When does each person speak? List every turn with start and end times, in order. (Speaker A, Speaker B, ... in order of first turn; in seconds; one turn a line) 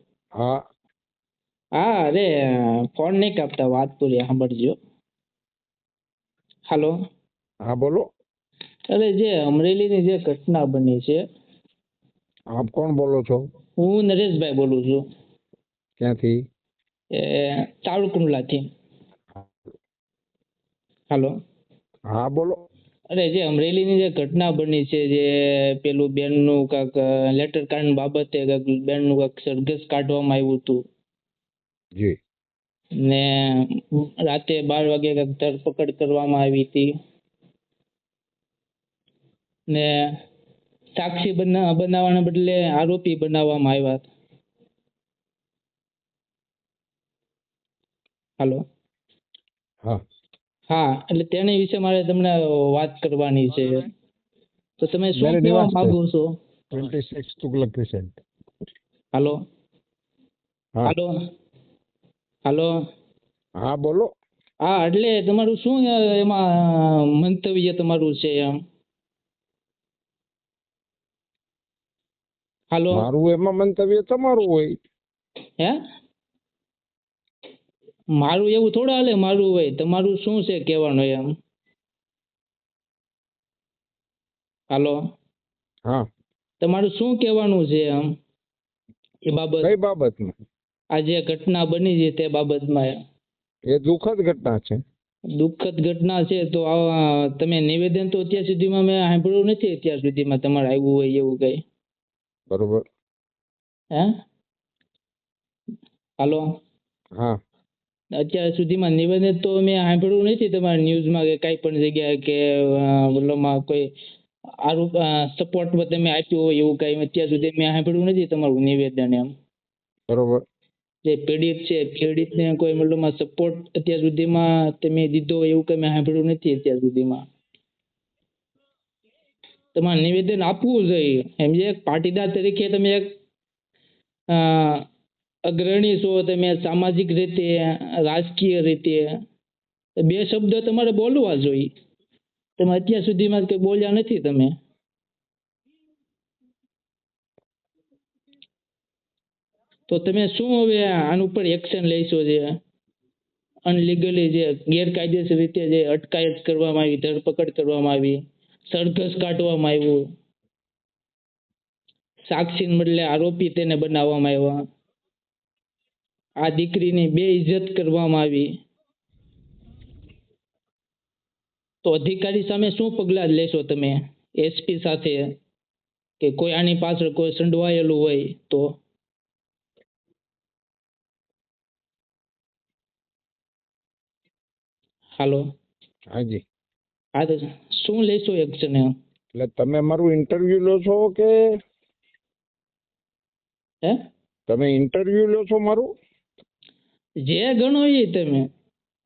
Speaker A: 1.8-4.8
Speaker A: 6.7-7.0
Speaker B: 7.7-8.1
Speaker A: 8.9-11.2
Speaker B: 12.5-13.4
Speaker A: 13.8-15.0
Speaker B: 16.0-16.4
Speaker A: 17.1-18.7
Speaker A: 21.1-21.3
Speaker B: 22.1-22.6
Speaker A: 23.1-30.8
Speaker A: 33.0-36.9
Speaker A: 39.7-40.1
Speaker A: 41.0-44.0
Speaker A: 50.7-53.9
Speaker A: 54.8-56.4
Speaker B: 55.2-56.0
Speaker B: 56.7-58.2
Speaker A: 59.1-59.4
Speaker A: 60.8-61.1
Speaker A: 62.5-62.7
Speaker B: 63.6-64.1
Speaker A: 64.6-68.6
Speaker A: 72.7-73.0
Speaker B: 72.9-74.8
Speaker A: 78.1-81.3
Speaker A: 84.7-85.0
Speaker A: 86.6-88.1
Speaker A: 89.2-89.7
Speaker B: 89.6-90.3
Speaker A: 90.9-93.0
Speaker B: 93.7-94.8
Speaker A: 95.3-101.6
Speaker B: 102.5-102.8
Speaker A: 106.2-106.6
Speaker A: 108.2-113.9
Speaker A: 114.6-119.3
Speaker B: 120.1-120.4
Speaker A: 121.0-127.2
Speaker A: 129.7-133.1
Speaker A: 134.3-134.8
Speaker A: 135.5-139.2
Speaker A: 140.0-141.7
Speaker A: 142.6-144.5
Speaker A: 149.9-152.6
Speaker A: 153.7-160.1
Speaker A: 162.3-164.6
Speaker A: 166.4-168.5
Speaker A: 171.8-175.3
Speaker A: 176.2-178.8
Speaker A: 185.2-185.5
Speaker B: 186.1-186.4
Speaker A: 187.2-188.9
Speaker B: 189.3-191.4
Speaker B: 194.5-195.9
Speaker A: 197.2-198.5